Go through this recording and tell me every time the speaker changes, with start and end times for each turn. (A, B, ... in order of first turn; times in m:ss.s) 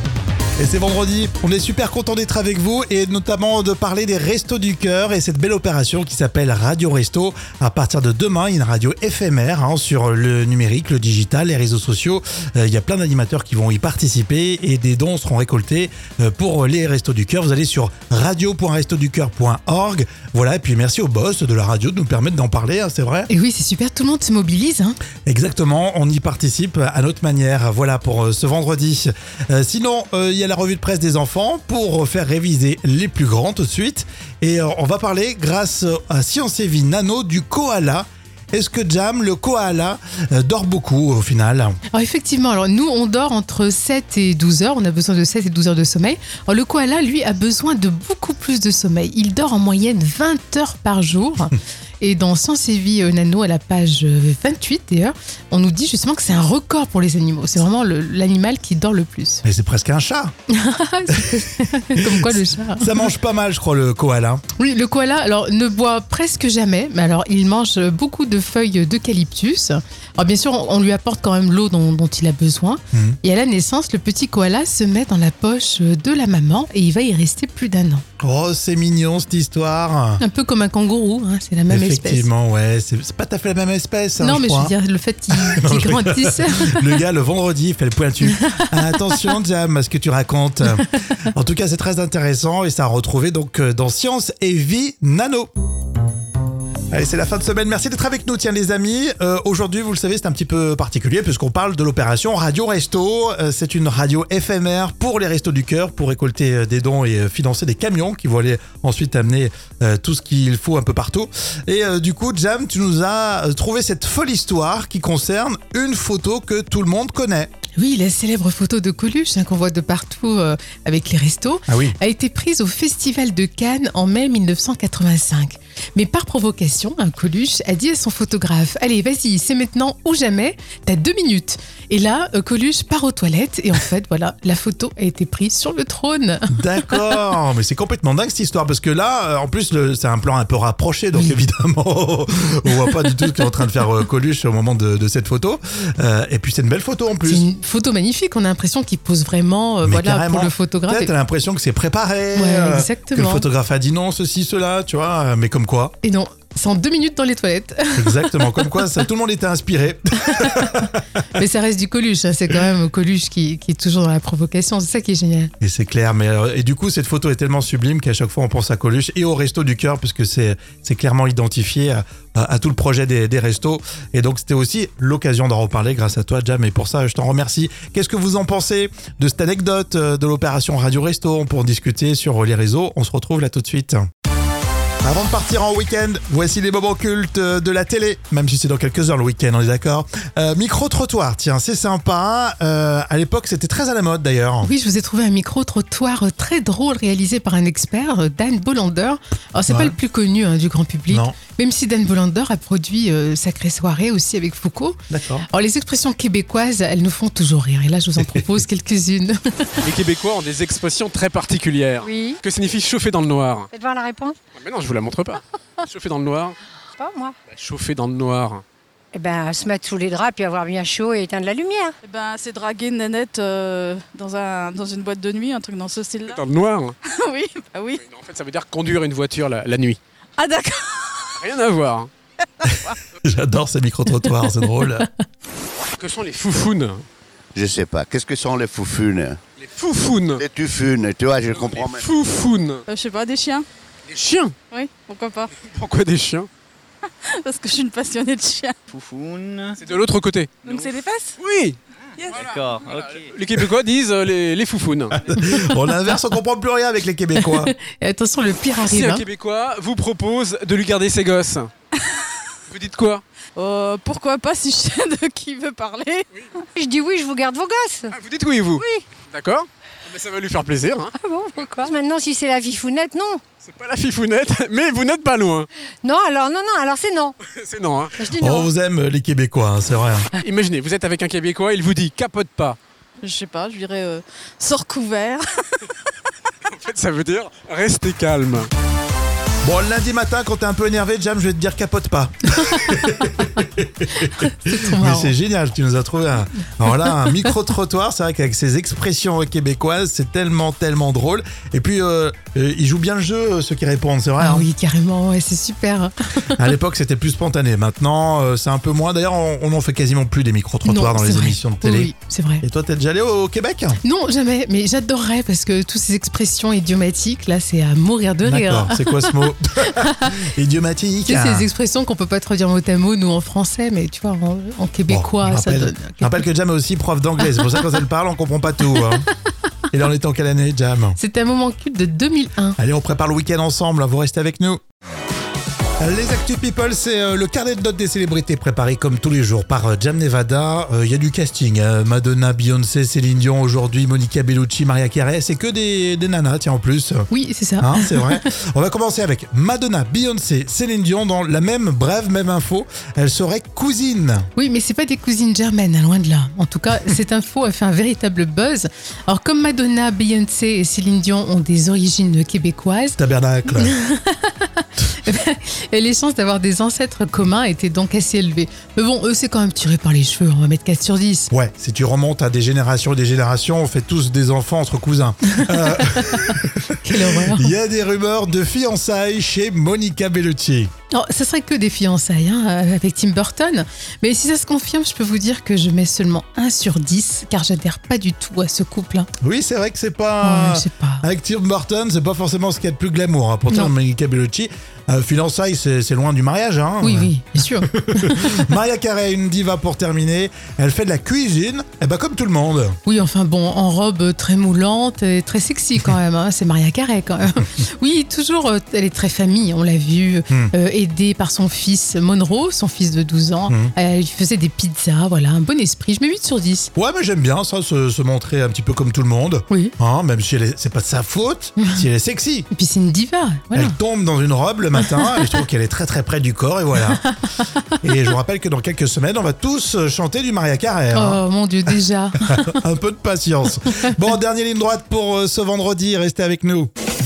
0:00.6-0:23.3 A
0:23.3-0:25.0 B
0:25.3-0:41.8 A
0:41.9-0:59.4 B
0:59.4-1:00.3 A
1:00.5-1:03.1 B
1:02.1-1:04.4 A
1:04.6-1:18.0 B
1:12.9-1:13.2 A
1:18.2-1:20.2 A
1:20.2-1:22.3 B
1:21.7-1:24.8 A
1:24.2-1:27.0 B
1:25.3-1:35.5 A
1:28.3-1:28.6 B
1:36.9-1:57.5 A
1:57.8-2:17.2 B
2:01.7-2:02.0 A
2:16.5-2:27.5 A
2:22.9-2:23.3 B
2:27.2-2:31.1 B
2:29.8-2:35.9 A
2:32.3-2:33.4 B
2:36.0-2:38.9 B
2:38.0-2:40.9 A
2:40.4-2:40.8 B
2:41.4-2:45.5 B
2:45.6-3:04.0 A
3:05.0-3:14.7 A
3:14.6-3:25.0 B
3:19.7-3:20.0 A
3:21.1-3:21.4 A
3:25.1-3:25.5 A
3:25.5-3:29.8 B
3:28.2-3:28.5 A
3:29.8-3:33.7 C
3:32.0-3:32.4 D
3:33.7-3:34.4 D
3:34.6-3:36.6 C
3:36.9-3:37.4 D
3:37.5-3:38.6 C
3:39.1-3:42.0 D
3:42.0-3:46.4 E
3:46.3-3:47.0 C
3:47.0-3:48.0 E
3:48.0-3:50.0 C
3:50.4-3:51.4 E
3:51.4-3:52.1 C
3:52.6-3:55.1 A
3:54.2-3:54.7 B
3:56.0-3:57.1 C
3:57.6-3:59.4 F
3:59.6-4:00.5 C
4:00.4-4:02.0 F
4:01.5-4:02.8 C
4:02.9-4:03.7 E
4:04.1-4:04.6 C
4:04.7-4:05.5 E
4:05.6-4:06.5 C
4:07.4-4:08.8 E
4:08.9-4:09.8 G
4:09.8-4:10.5 C
4:10.6-4:11.0 G
4:10.6-4:11.4 E
4:11.4-4:11.8 C
4:12.2-4:12.5 E
4:12.3-4:13.3 G
4:12.4-4:15.3 C
4:15.2-4:17.7 A
4:15.4-4:15.9 B
4:17.4-4:19.2 B
4:18.8-4:21.7 C
4:22.7-4:23.2 C
4:23.6-4:26.3 E
4:26.8-4:28.1 D
4:28.1-4:31.7 C
4:28.8-4:29.1 D
4:31.1-4:33.4 D
4:33.6-4:35.7 C
4:36.0-4:37.4 D
4:37.5-4:38.2 C
4:38.2-4:38.7 D
4:38.4-4:40.3 A
4:40.4-4:42.8 C
4:43.2-4:45.6 E
4:46.7-4:48.7 C
4:49.6-5:04.7 A
4:54.2-4:55.4 B
4:57.0-4:57.5 B
5:04.4-5:06.7 B
5:06.6-5:14.0 A
5:10.8-5:12.6 B
5:14.0-5:19.5 B
5:18.4-5:21.7 A
5:21.2-5:26.5 B
5:25.1-5:29.3 A
5:29.9-5:31.2 A
5:31.2-5:32.8 B
5:32.8-5:34.8 A
5:36.0-5:47.3 A
5:47.3-5:48.4 B
5:47.8-5:54.5 A
5:54.6-6:03.2 B
6:03.2-6:04.0 A
6:03.7-6:11.5 B
6:11.5-6:20.9 A
6:17.0-6:17.7 B
6:21.1-6:29.3 B
6:29.4-6:43.0 A
6:30.4-6:31.2 B
6:37.0-6:38.6 B
6:43.1-6:56.9 B
6:53.7-6:53.9 A
6:57.0-7:02.7 A
7:01.8-7:02.0 B
7:02.7-7:04.0 B
7:03.7-7:07.3 A
7:05.0-7:05.3 B
7:08.0-7:11.9 A
7:11.1-7:12.8 B
7:12.4-7:16.9 A